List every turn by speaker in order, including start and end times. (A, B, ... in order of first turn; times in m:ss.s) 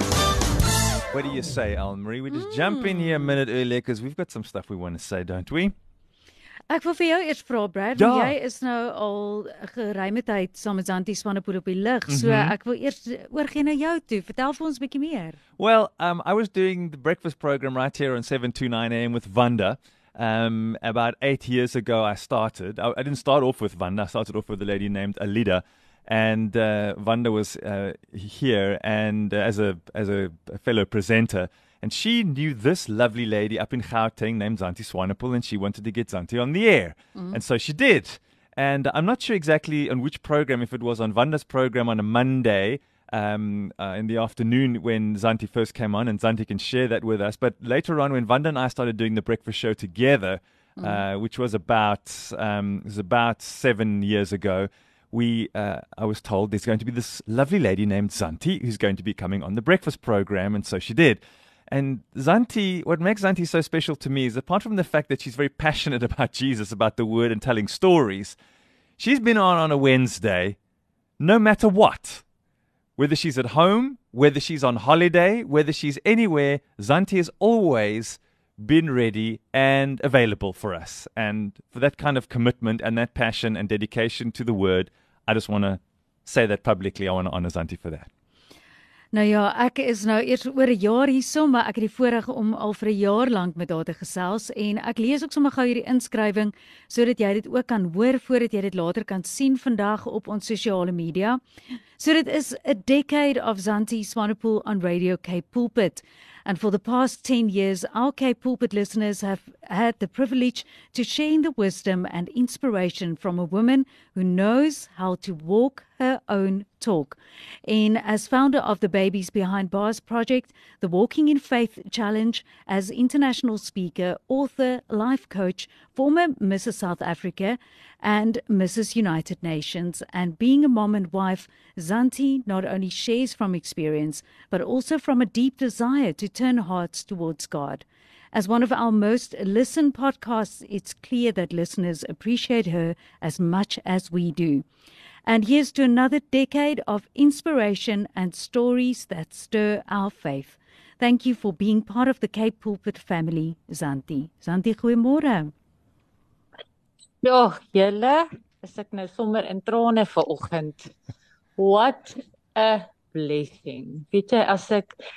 0:01.1-0:05.7 A
0:02.3-0:03.3 B
0:06.7-0:15.4 B
0:08.0-0:08.3 A
0:12.1-0:12.6 A
0:15.6-1:08.4 A
0:37.1-0:37.4 B
1:09.0-1:10.6 A
1:11.2-1:12.2 A
1:13.0-1:28.1 A
1:29.1-1:41.4 B
1:42.0-2:24.6 B
2:25.2-2:35.5 B
2:37.2-2:40.9 C
2:41.6-2:45.0 C